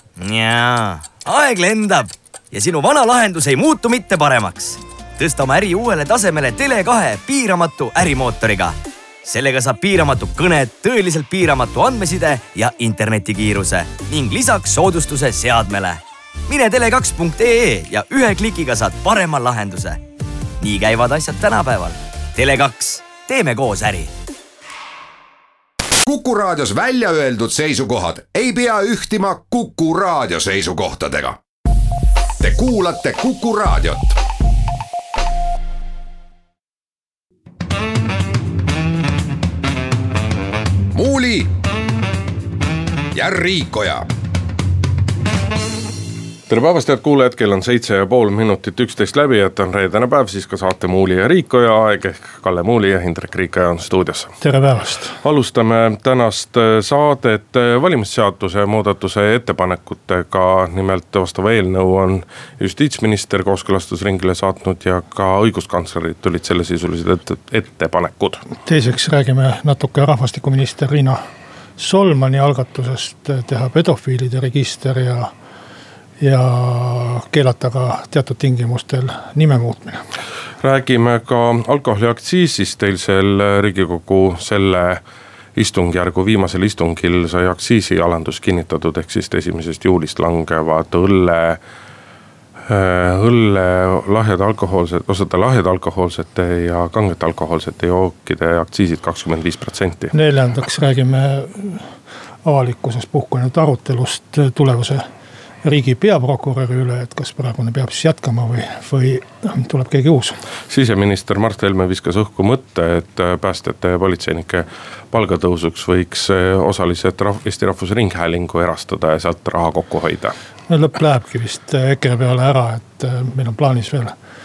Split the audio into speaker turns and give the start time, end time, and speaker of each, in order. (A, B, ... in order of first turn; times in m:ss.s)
0:00.2-0:20.0 A
0:20.6-0:24.1 A
0:26.0-0:31.4 B
0:32.4-0:34.2 B
0:40.9-0:41.5 B
0:43.1-0:44.1 B
0:46.5-0:54.4 C
0:54.4-0:55.2 D
0:55.2-1:08.5 C
1:08.6-1:11.2 D
1:11.8-1:15.3 D
1:16.2-1:20.0 D
1:20.6-1:25.0 C
1:25.6-1:31.6 C
1:32.7-1:40.1 C
1:40.1-1:41.9 D
1:42.4-1:45.0 D
1:45.6-1:50.4 D
1:50.7-2:00.3 C
2:00.7-2:04.2 D